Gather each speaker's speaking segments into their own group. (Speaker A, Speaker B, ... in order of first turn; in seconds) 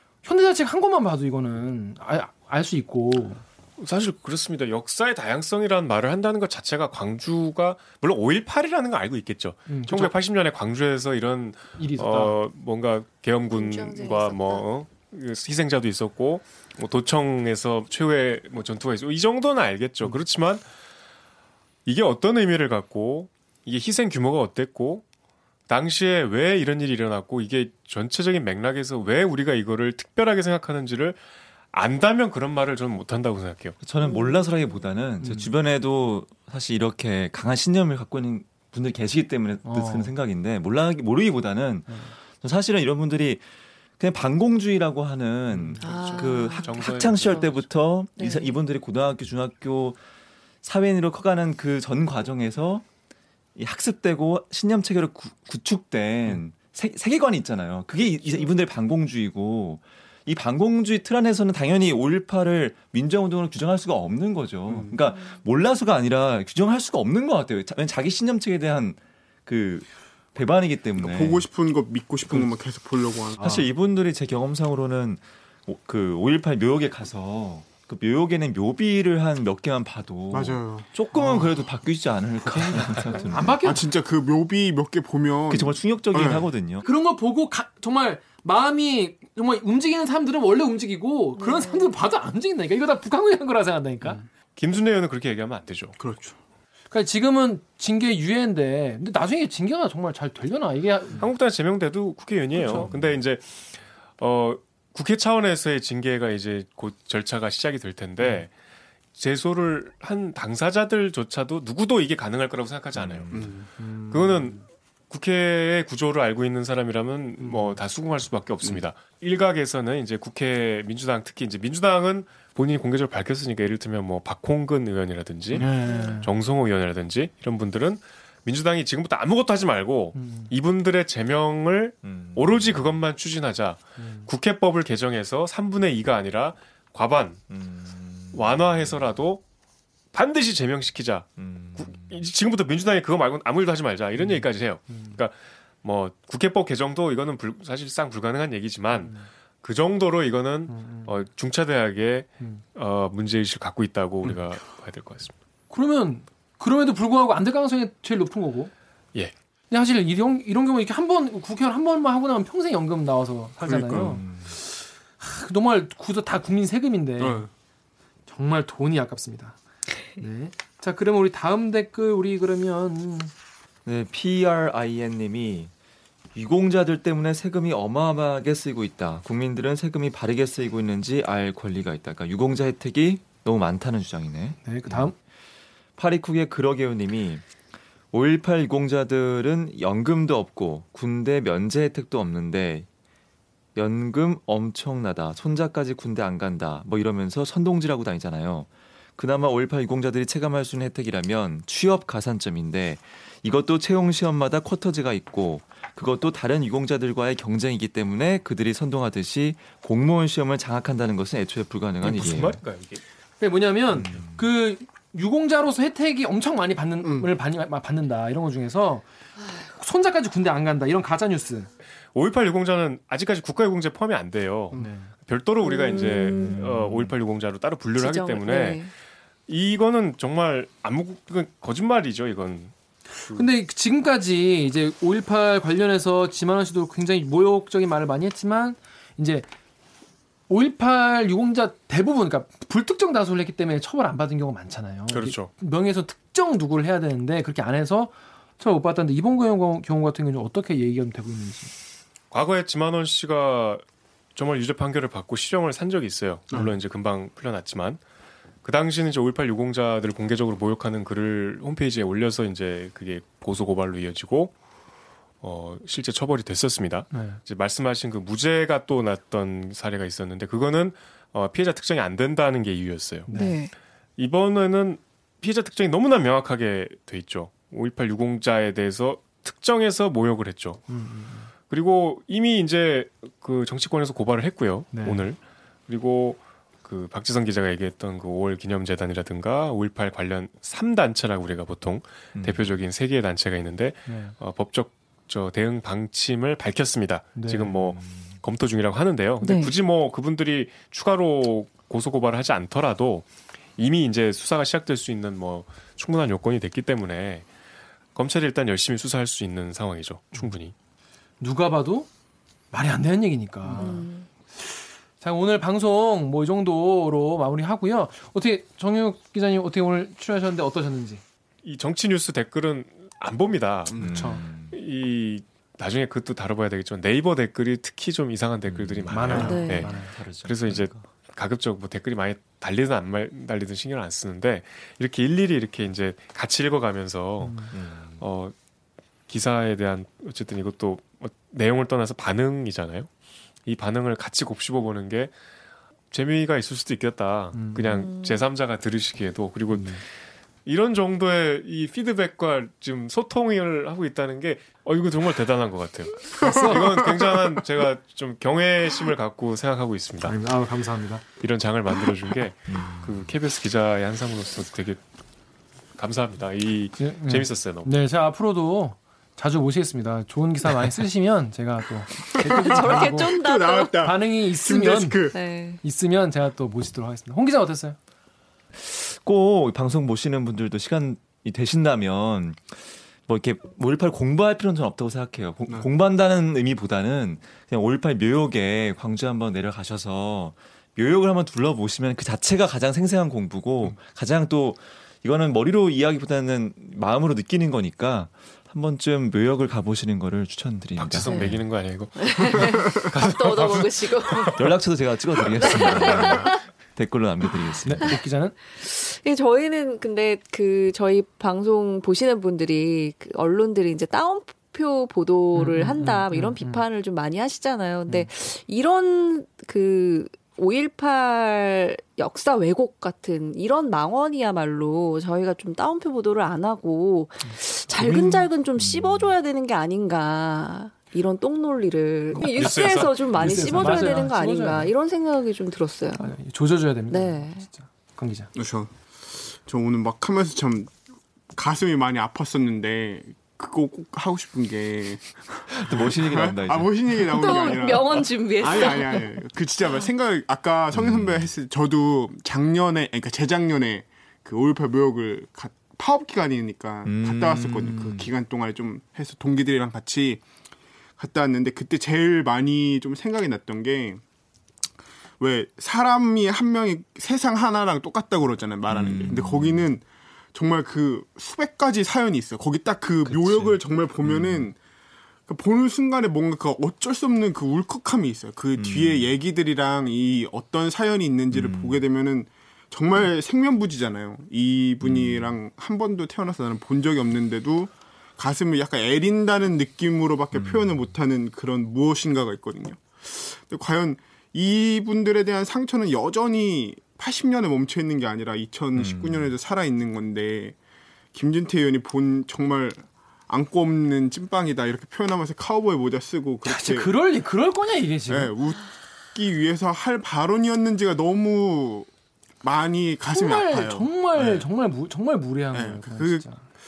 Speaker A: 0.2-3.4, 9.7-10.1, 11.8-12.4, 35.2-35.5, 39.6-40.1, 41.9-42.1, 73.4-73.6, 83.3-83.8, 86.8-94.2, 96.9-101.3, 113.8-114.6, 117.4-117.8, 125.5-126.3, 130.1-130.5, 134.0-134.3, 144.2-145.2, 149.0-149.3, 150.7-151.2, 155.7-158.7, 159.7-167.5, 168.3-169.6, 170.1-173.3, 184.6-185.2, 213.4-219.1, 219.6-221.7, 224.7-225.1, 233.3-239.5, 240.5-251.7, 267.1-267.4, 273.3-273.6, 280.9-281.5, 284.9-285.2, 294.1-294.3, 297.3-297.9, 311.4-312.1, 312.7-321.2, 324.0-324.4, 329.1-330.1, 337.4-337.7, 347.5-348.0, 349.7-350.0, 356.4-356.9, 360.2-361.2, 367.0-373.3, 374.0-375.3, 375.8-378.0, 407.8-408.6, 415.5-416.8, 427.4-428.5, 432.3-434.9, 436.2-438.5, 473.2-473.8, 506.6-508.5, 513.3-516.6
Speaker B: 3.8-20.6, 21.9-25.0, 25.7-31.2, 31.7-33.8, 45.8-47.6, 94.5-96.0, 101.2-108.5, 109.1-113.3, 114.1-137.4, 138.3-139.4, 140.1-155.3, 212.0-213.0, 222.1-228.9, 229.5-233.5, 245.1-245.5, 252.3-253.8, 254.3-258.0, 258.6-264.5, 265.4-273.3, 274.2-280.8, 281.7-307.5, 308.1-310.7, 321.6-338.5, 339.3-343.1, 343.6-345.3, 346.1-350.0, 350.6-360.4, 361.4-365.0, 366.0-367.9, 401.0-404.7, 405.6-406.4, 432.5-434.3
Speaker C: 13.5-14.7, 34.0-34.8, 45.8-47.5, 48.1-48.5, 65.0-65.4, 91.4-92.0, 125.8-126.2, 225.6-226.6, 227.9-228.9, 273.3-273.7, 299.4-299.7, 313.7-314.3, 329.4-329.9, 347.9-348.4, 372.5-374.0, 375.3-375.8, 401.3-401.6, 402.1-404.6, 405.6-406.6, 408.8-436.2, 437.1-437.6, 447.3-449.3
Speaker D: 33.8-43.4, 44.0-50.0, 50.6-52.9, 53.5-71.4, 73.4-83.6, 85.5-86.8, 102.7-103.2, 112.9-113.5, 132.0-133.0, 137.5-139.0, 141.4-142.2, 164.0-164.5, 173.8-175.7, 176.3-185.1, 186.0-187.4, 188.1-192.9, 193.7-212.6, 213.9-214.5, 226.4-227.1, 292.3-292.6, 324.0-324.8, 328.6-331.0, 337.7-338.2, 362.7-363.4, 378.8-401.6, 404.6-408.1, 428.8-429.3, 445.7-447.8, 450.9-451.5, 457.0-458.3, 468.9-469.9, 474.2-474.7, 478.7-479.3, 481.5-482.0, 485.0-485.6, 490.5-491.0, 498.9-499.5
Speaker E: 64.7-64.9, 71.0-73.6, 80.3-80.9, 83.6-86.5, 96.0-96.3, 113.3-113.7, 163.6-164.2, 167.2-167.5, 217.0-217.3, 356.4-357.3, 372.4-375.4, 438.5-440.9, 441.5-460.4, 461.2-464.2, 465.4-474.8, 475.5-500.8, 501.3-507.1, 508.3-512.1, 512.6-514.6, 515.7-516.5